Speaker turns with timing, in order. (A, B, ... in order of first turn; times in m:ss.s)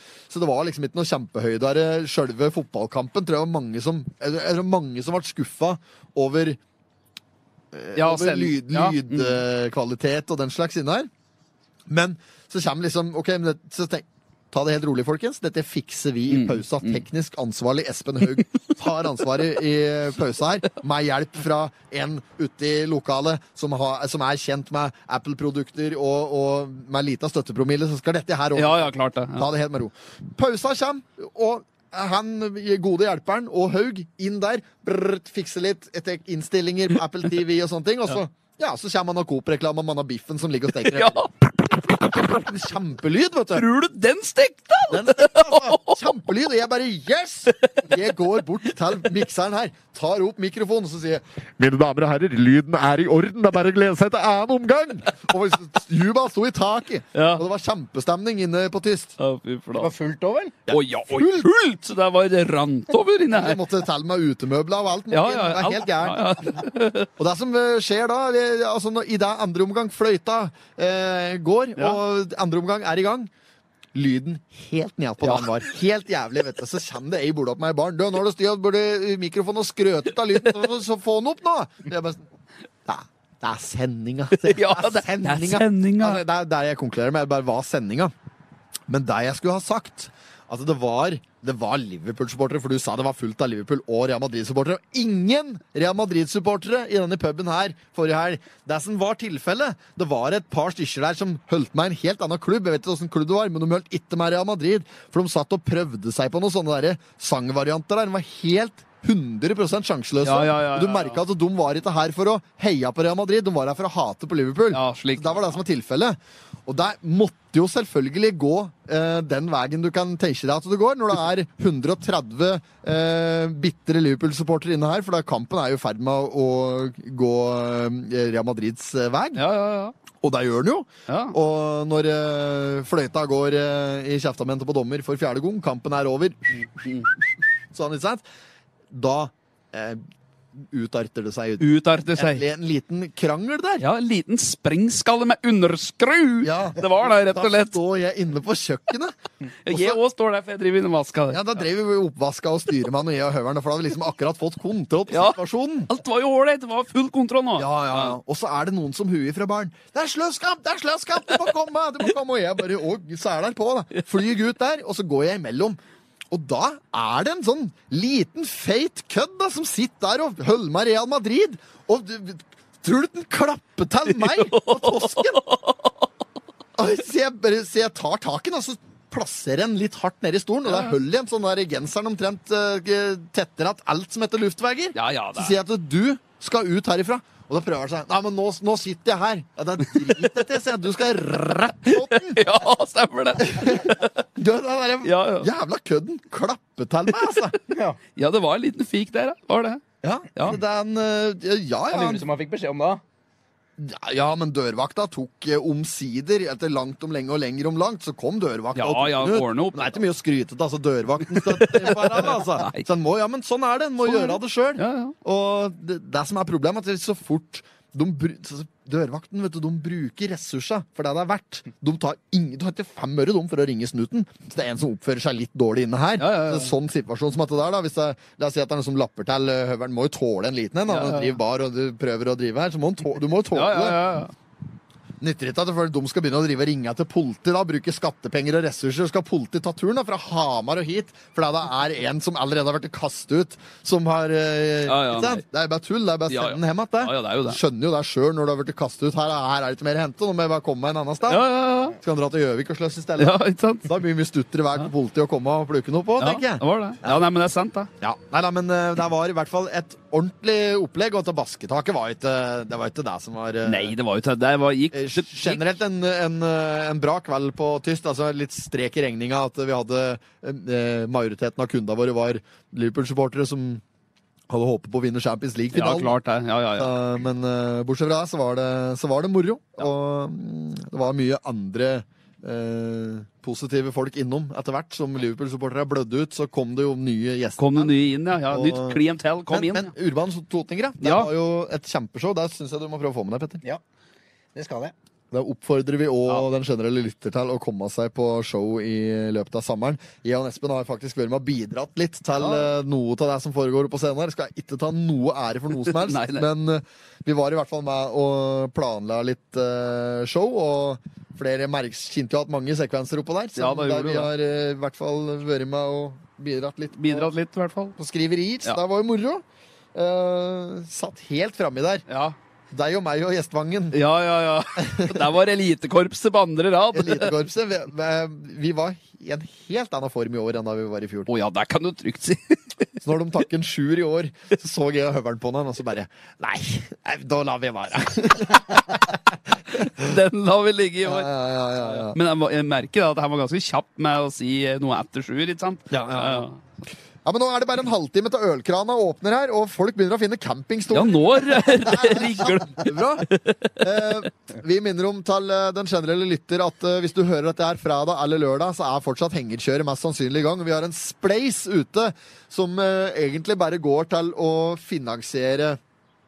0:00.3-0:06.6 A
0:07.7-0:11.1 A
0:08.0-0:09.4 B
0:11.9-0:43.7 A
0:16.3-0:17.0 B
0:28.5-0:29.5 B
0:40.9-0:41.3 B
0:43.5-0:46.1 B
0:44.9-0:59.2 A
0:47.6-0:48.0 B
0:57.1-0:57.4 B
0:59.2-0:59.9 B
0:59.8-1:00.6 C
1:00.7-1:01.5 A
1:00.7-1:03.6 B
1:03.3-1:06.6 A
1:05.1-1:07.1 B
1:07.2-1:13.3 A
1:13.9-1:22.2 A
1:15.2-1:15.6 B
1:22.8-1:28.1 A
1:24.4-1:26.2 B
1:28.9-2:09.4 A
1:50.2-1:51.2 B
1:54.7-1:55.6 B
2:09.3-2:09.9 B
2:10.2-2:17.1 A
2:11.1-2:11.3 B
2:16.8-2:17.1 B
2:17.7-2:18.2 A
2:18.9-2:20.0 A
2:20.6-2:23.8 A
2:21.6-2:22.4 B
2:23.8-2:27.8 B
2:26.4-2:29.1 A
2:29.6-2:31.4 B
2:29.7-2:30.0 A
2:31.3-2:35.9 A
2:35.1-2:38.2 B
2:37.6-2:45.8 A
2:46.3-2:55.4 A
2:54.1-2:56.0 B
2:56.8-3:12.4 A
3:00.6-3:01.0 B
3:04.9-3:05.6 B
3:11.9-3:14.1 B
3:13.4-3:17.6 A
3:15.0-3:15.5 B
3:17.1-3:17.5 B
3:17.7-3:18.0 C
3:18.2-3:19.8 B
3:20.0-3:22.2 A
3:21.9-3:23.0 C
3:23.8-3:54.0 A
3:28.7-3:30.0 B
3:31.3-3:32.8 B
3:34.0-3:35.1 B
3:46.2-3:46.7 B
3:50.9-3:51.4 B
3:53.5-3:54.3 B
3:55.2-4:17.2 A
4:04.8-4:05.4 B
4:06.3-4:07.6 B
4:11.3-4:12.0 B
4:13.2-4:13.9 B
4:16.2-4:17.9 B
4:18.0-4:23.9 A
4:23.6-4:25.6 B
4:24.9-4:33.8 A
4:34.5-4:36.2 A
4:35.7-4:36.9 B
4:36.8-4:47.9 A
4:47.6-4:49.9 B
4:48.5-4:53.6 A
4:51.0-4:51.3 B
4:54.5-4:54.9 C
4:55.3-5:17.3 A
5:05.8-5:06.5 B
5:13.6-5:14.3 B
5:16.9-5:18.0 B
5:18.0-5:22.0 A
5:22.1-5:22.4 B
5:22.7-5:24.0 A
5:23.9-5:27.3 B
5:24.8-5:25.3 A
5:26.9-5:31.3 A
5:31.3-5:32.9 B
5:33.0-5:39.2 A
5:39.7-5:40.1 A
5:39.8-5:41.3 B
5:41.0-5:42.2 A
5:41.8-5:46.6 B
5:45.9-5:46.5 A
5:47.2-5:53.3 A
5:50.9-5:54.2 B
5:53.8-6:05.8 A